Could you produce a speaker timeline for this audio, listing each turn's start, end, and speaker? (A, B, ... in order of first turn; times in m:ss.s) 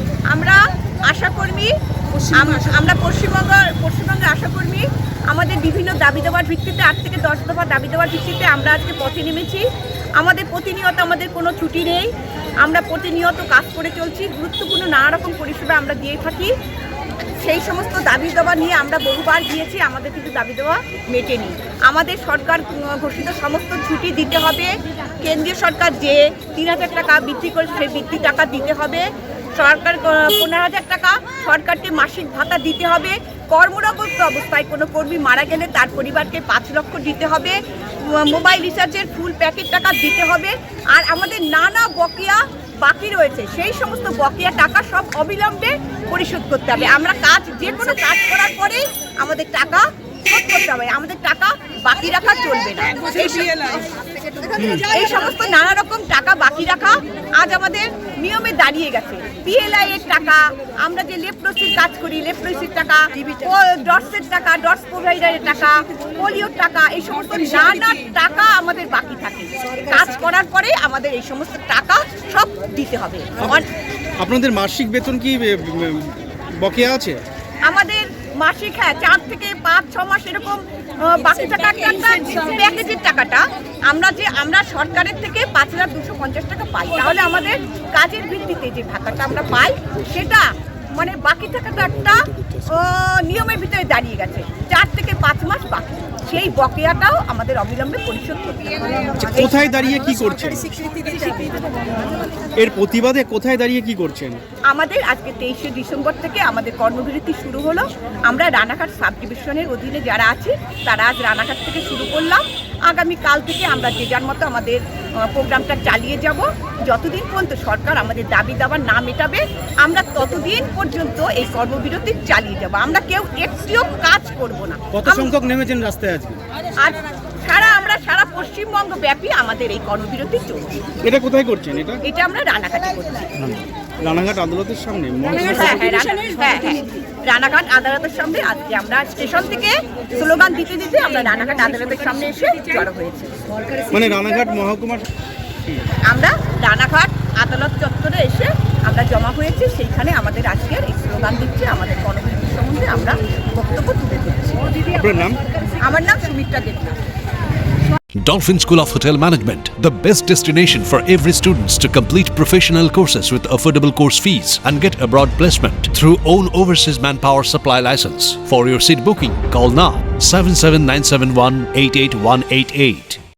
0:00.3-0:01.7 A
0:02.3-0:09.6 A
0:10.2-0:12.1 A
0:12.6-0:16.5 A
0:17.4-0:24.7 A
0:25.2-0:29.0 A
0:29.6-0:53.9 A
0:54.5-0:54.9 B
0:54.8-1:13.6 A
1:14.2-1:17.2 B
1:17.7-1:39.3 A
1:39.2-1:40.8 B
1:42.6-1:44.4 B
1:44.7-1:54.8 A
1:55.3-2:05.3 A
2:04.9-2:06.4 B
2:06.8-2:10.7 A
2:11.0-2:12.0 B
2:12.1-2:13.3 A
2:13.4-2:15.9 B
2:15.4-2:23.3 A
2:23.9-2:25.1 B
2:26.1-2:34.6 A
2:34.9-2:35.4 B
2:35.8-2:37.0 A
2:38.2-2:53.2 C